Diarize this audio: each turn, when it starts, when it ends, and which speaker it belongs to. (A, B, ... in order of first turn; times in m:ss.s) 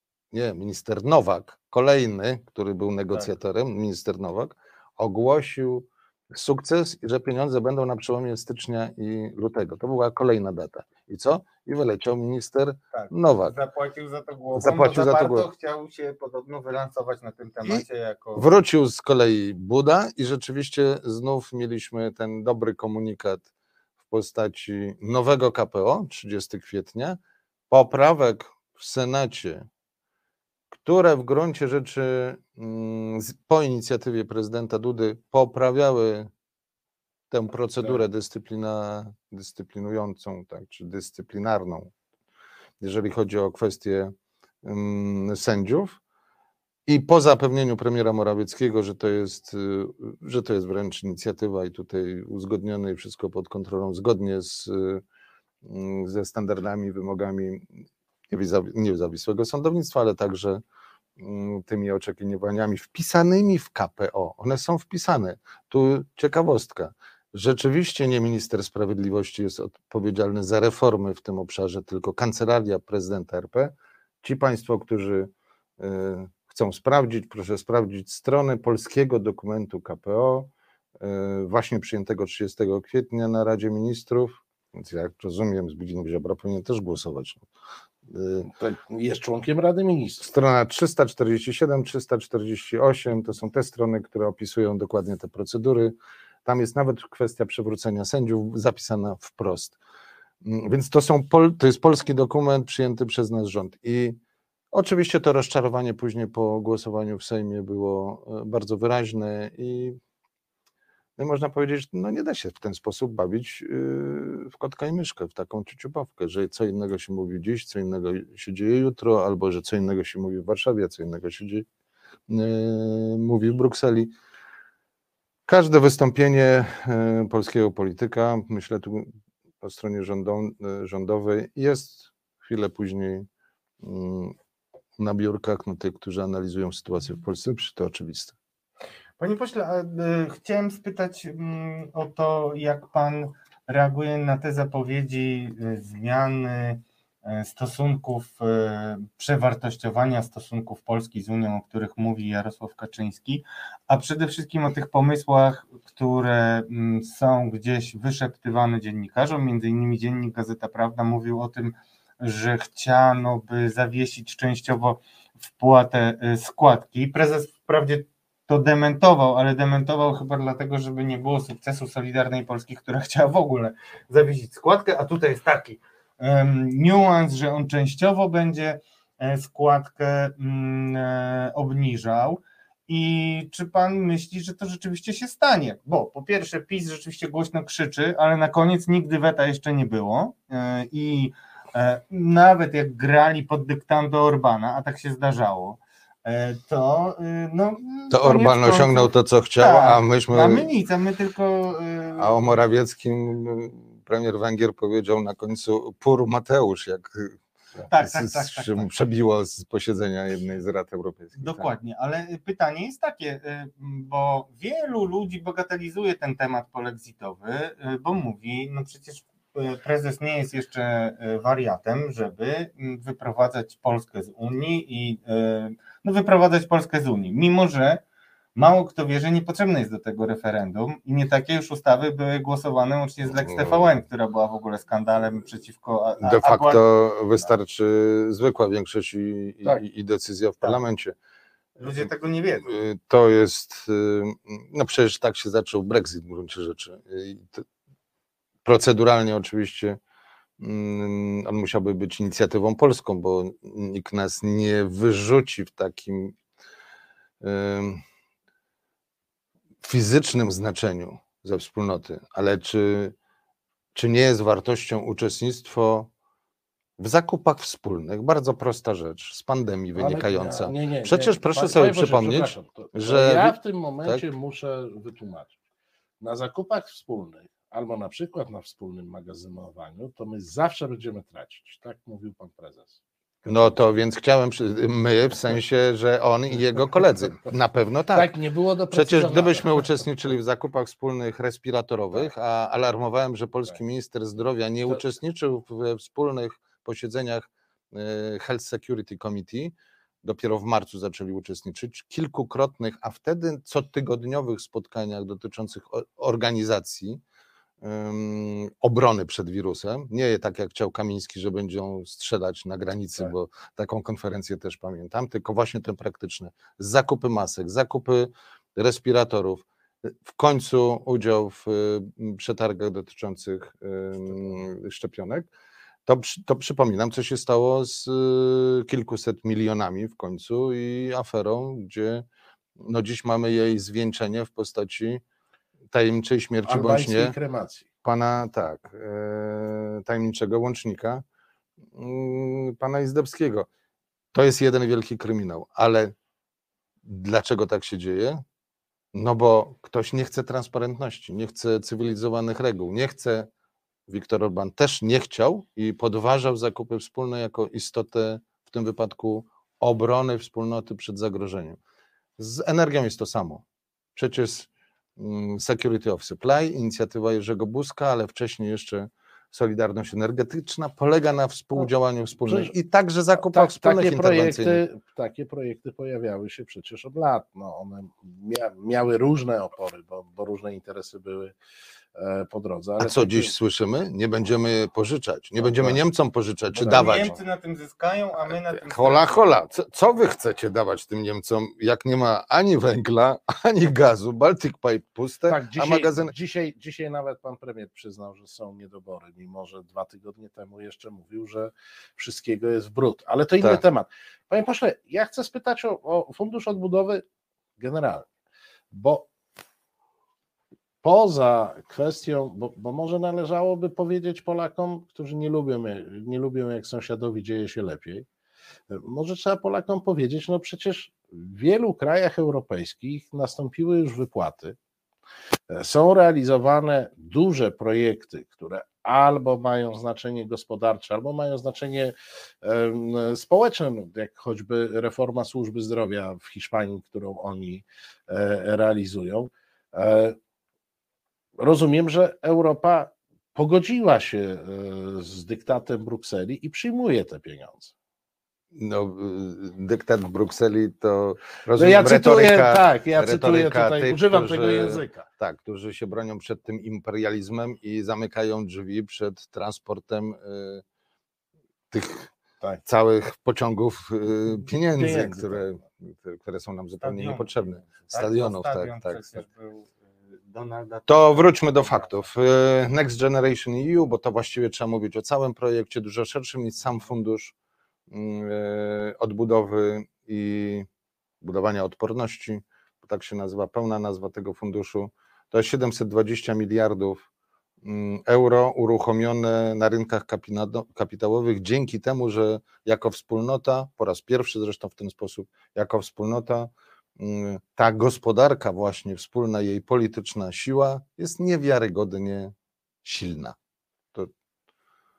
0:00.3-0:13.6 A
0:12.9-0:18.5 B
0:14.6-0:15.5 A
0:18.4-0:23.4 A
0:24.1-0:29.7 A
0:30.7-0:36.3 A
0:37.3-0:41.9 A
0:42.8-0:46.0 A
0:46.9-0:55.0 A
0:55.6-1:00.6 A
1:01.2-1:27.5 A
1:28.1-1:28.5 A
1:28.4-1:30.3 C
1:30.2-1:39.8 A
1:40.4-1:44.2 A
1:44.7-1:50.0 A
1:51.2-2:01.7 A
2:02.3-2:04.1 A
2:05.5-2:09.1 A
2:09.6-2:13.3 A
2:13.8-2:14.4 A
2:15.0-2:18.4 A
2:19.2-2:45.0 B
2:45.6-3:22.5 B
3:18.1-3:20.7 A
3:22.2-3:27.4 A
3:27.9-3:28.9 B
3:27.9-3:31.7 A
3:31.4-3:48.0 B
3:48.6-3:56.9 B
3:56.2-4:01.2 A
4:01.8-4:02.7 B
4:02.6-4:07.6 A
4:08.6-4:10.0 A
4:10.6-4:16.4 A
4:17.4-4:18.0 A
4:19.8-4:23.2 A
4:24.0-4:26.1 A
4:27.0-4:34.3 A
4:30.0-4:35.6 C
4:36.2-4:43.8 C
4:43.4-4:48.4 A
4:48.2-4:49.9 C
4:48.9-5:07.2 A
5:07.8-5:25.5 A
5:26.1-5:32.2 A
5:32.8-5:35.2 A
5:35.9-5:37.4 A
5:36.6-5:37.9 C
5:38.0-5:41.2 A
5:41.9-5:43.7 A
5:44.3-5:46.1 A
5:47.0-5:48.4 A
5:49.1-5:53.5 A
5:54.1-6:01.8 A
6:02.4-6:03.6 A
6:04.2-6:14.8 A
6:12.5-6:12.7 C
6:13.4-6:21.6 C
6:22.2-6:23.5 C
6:23.0-6:27.3 A
6:25.6-6:26.0 C
6:26.8-6:27.4 C
6:26.8-6:29.5 B
6:28.8-6:36.3 A
6:35.5-6:47.2 C
6:47.8-6:48.3 C
6:48.9-6:49.3 C
6:51.0-6:58.3 C
6:58.9-7:04.8 C
7:05.7-7:20.4 C
7:21.6-7:27.9 C
7:28.7-7:40.8 A
7:31.8-7:35.3 C
7:41.9-7:42.3 A
7:42.8-7:49.4 A
7:45.0-7:45.6 C
7:47.0-7:49.9 B
7:50.5-7:52.2 B
7:51.1-7:57.5 A
7:58.1-8:00.9 A
8:01.4-8:07.2 A
8:07.8-8:22.5 A
8:23.0-8:23.6 A